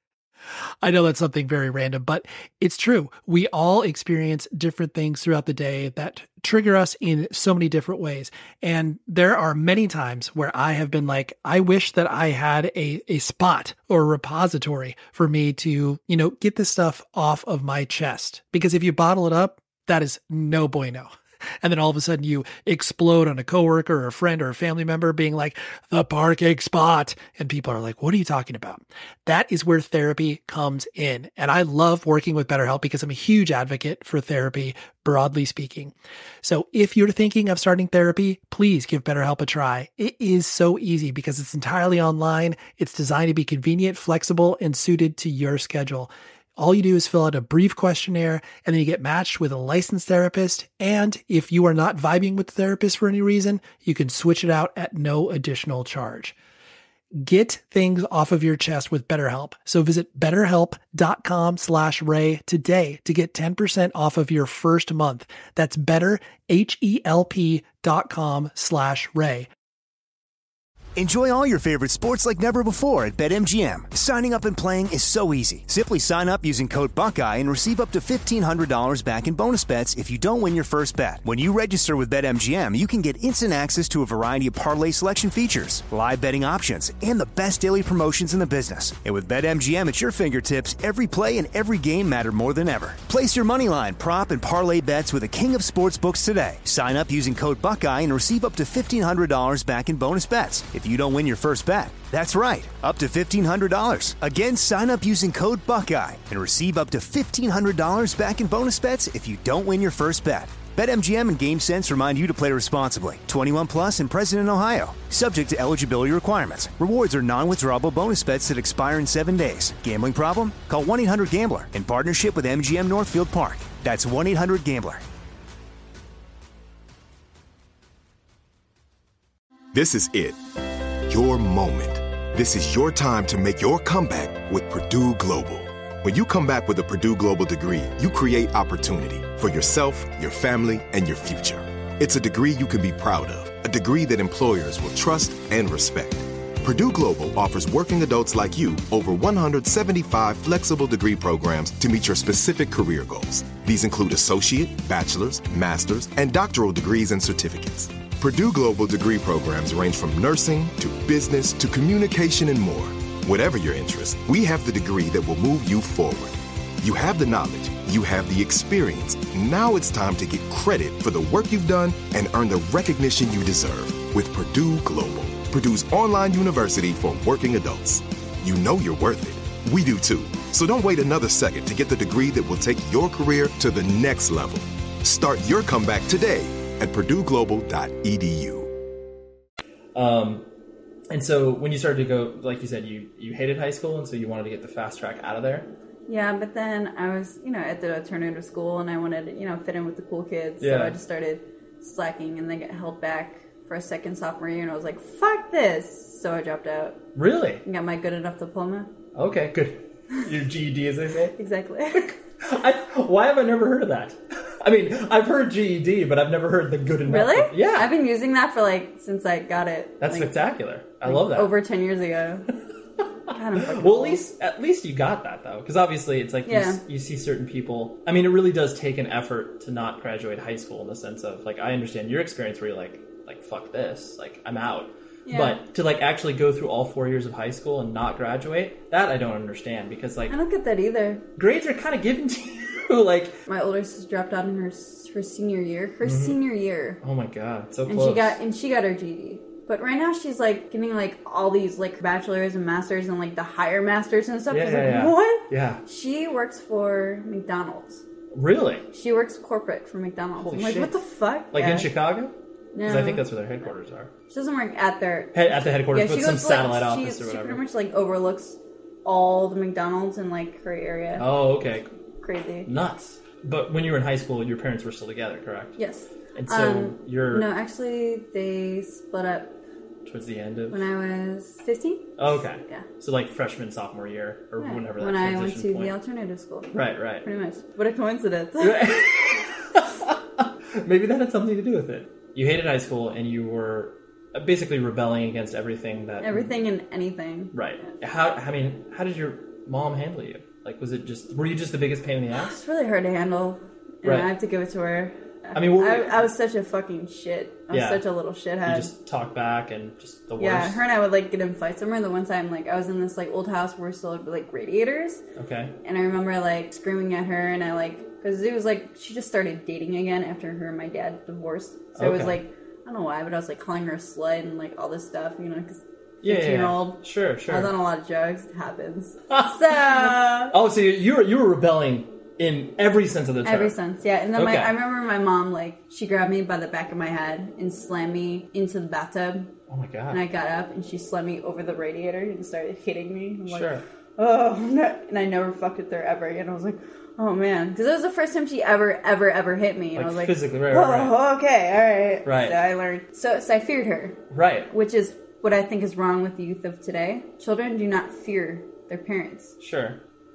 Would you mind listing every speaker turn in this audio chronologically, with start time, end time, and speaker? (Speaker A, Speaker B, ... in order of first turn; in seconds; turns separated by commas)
Speaker A: 0.8-56.4, Speaker A: 57.2-69.5, Speaker B: 71.0-125.0, Speaker C: 129.7-130.4, Speaker C: 131.1-188.7, Speaker D: 189.9-190.5, Speaker D: 191.1-195.7, Speaker E: 196.1-207.0, Speaker D: 200.6-200.9, Speaker D: 207.2-207.6, Speaker E: 207.6-208.9, Speaker D: 209.2-211.4, Speaker E: 211.4-212.1, Speaker D: 211.9-217.9, Speaker E: 217.1-220.3, Speaker D: 220.0-221.6, Speaker E: 221.1-222.5, Speaker E: 223.3-224.2, Speaker D: 223.6-240.4, Speaker E: 226.5-226.8, Speaker E: 235.3-235.6, Speaker E: 240.3-241.2, Speaker D: 241.4-243.4, Speaker E: 243.5-247.0, Speaker D: 246.0-246.4, Speaker D: 247.0-248.4, Speaker E: 247.9-258.0, Speaker D: 254.5-255.8, Speaker D: 258.3-258.9, Speaker E: 258.9-261.9, Speaker D: 260.4-261.0, Speaker D: 261.5-262.3, Speaker E: 262.7-263.2, Speaker D: 262.8-264.1, Speaker E: 264.3-271.2, Speaker D: 265.3-267.6, Speaker D: 271.2-271.9, Speaker E: 272.2-272.7, Speaker D: 272.7-275.8, Speaker E: 275.8-279.5, Speaker D: 276.4-277.5, Speaker D: 280.1-280.9, Speaker E: 280.7-282.1, Speaker D: 282.2-285.9, Speaker E: 284.6-288.9, Speaker D: 286.7-287.3, Speaker D: 288.6-296.5, Speaker E: 296.2-297.9, Speaker D: 297.5-302.6, Speaker E: 302.4-308.9, Speaker D: 304.0-304.3, Speaker D: 305.6-306.3, Speaker D: 307.7-308.0, Speaker D: 308.6-310.8, Speaker E: 310.4-315.2, Speaker D: 315.4-315.7, Speaker E: 315.8-330.6, Speaker D: 322.0-322.4, Speaker D: 326.2-327.7, Speaker D: 329.3-333.8, Speaker E: 333.4-339.5, Speaker D: 334.4-334.7, Speaker D: 339.7-340.2, Speaker E: 340.1-354.2, Speaker D: 343.5-343.8, Speaker D: 349.9-351.2, Speaker D: 352.2-352.6, Speaker D: 354.3-354.7, Speaker E: 354.7-359.5, Speaker D: 359.6-360.0